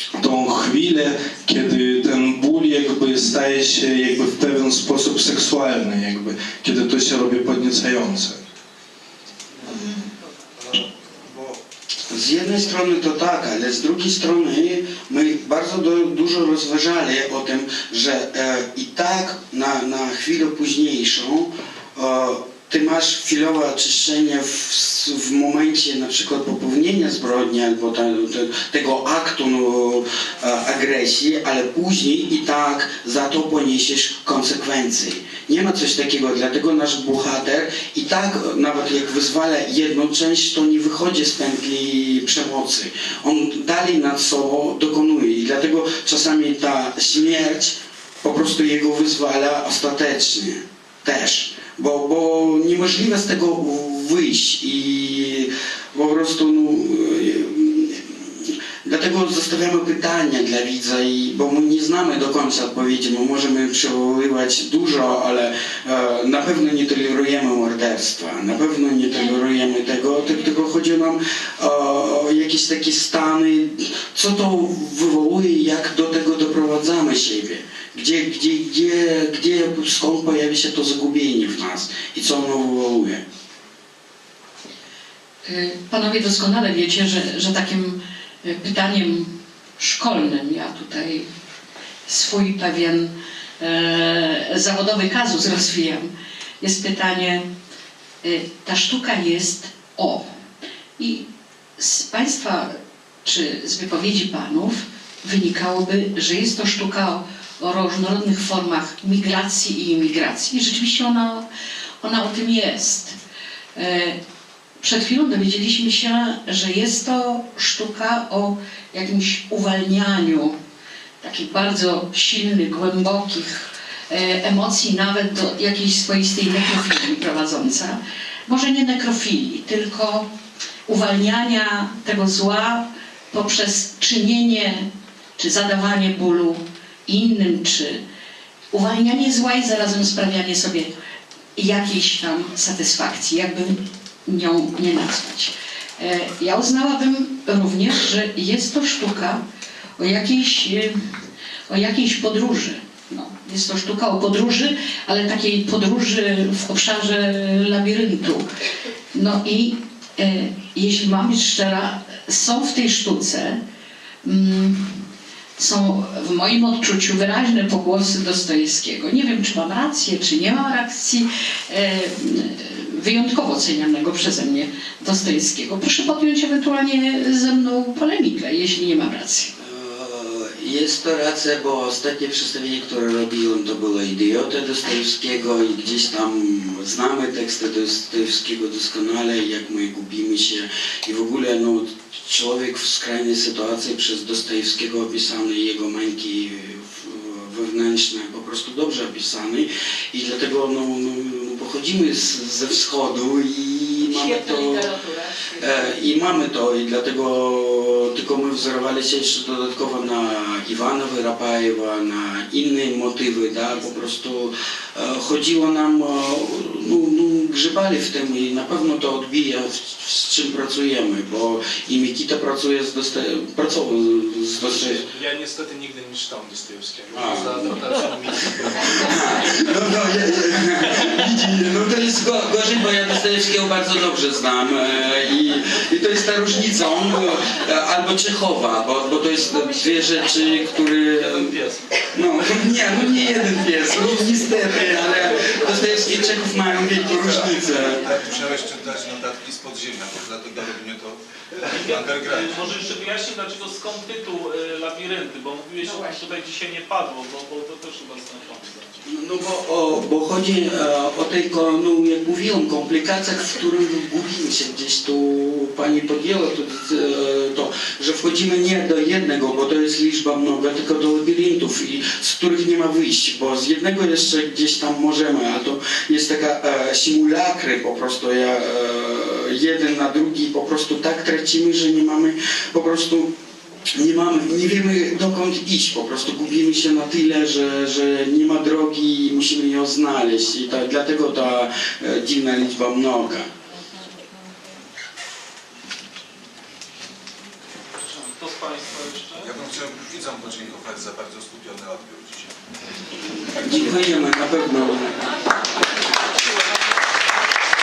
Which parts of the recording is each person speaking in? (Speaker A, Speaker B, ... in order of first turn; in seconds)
Speaker A: 0.1-8.4
Speaker B: 10.6-11.6, 12.1-83.2, 179.6-205.0, 205.5-225.1, 227.1-227.7, 228.9-248.0, 259.1-283.3, 283.9-293.5, 303.6-305.1
Speaker C: 85.5-91.3, 92.1-97.5, 98.2-100.2, 101.0-101.2, 101.8-111.5, 112.0-113.2, 113.7-114.2, 114.8-120.5, 121.2-130.3, 130.9-138.0, 138.7-140.9, 141.6-149.4, 150.0-151.0, 151.7-158.5, 159.1-163.6, 164.2-179.5
Speaker D: 224.8-229.3, 241.2-241.8
Speaker E: 247.1-252.6, 299.4-302.5
Speaker F: 251.6-258.9, 298.0-299.5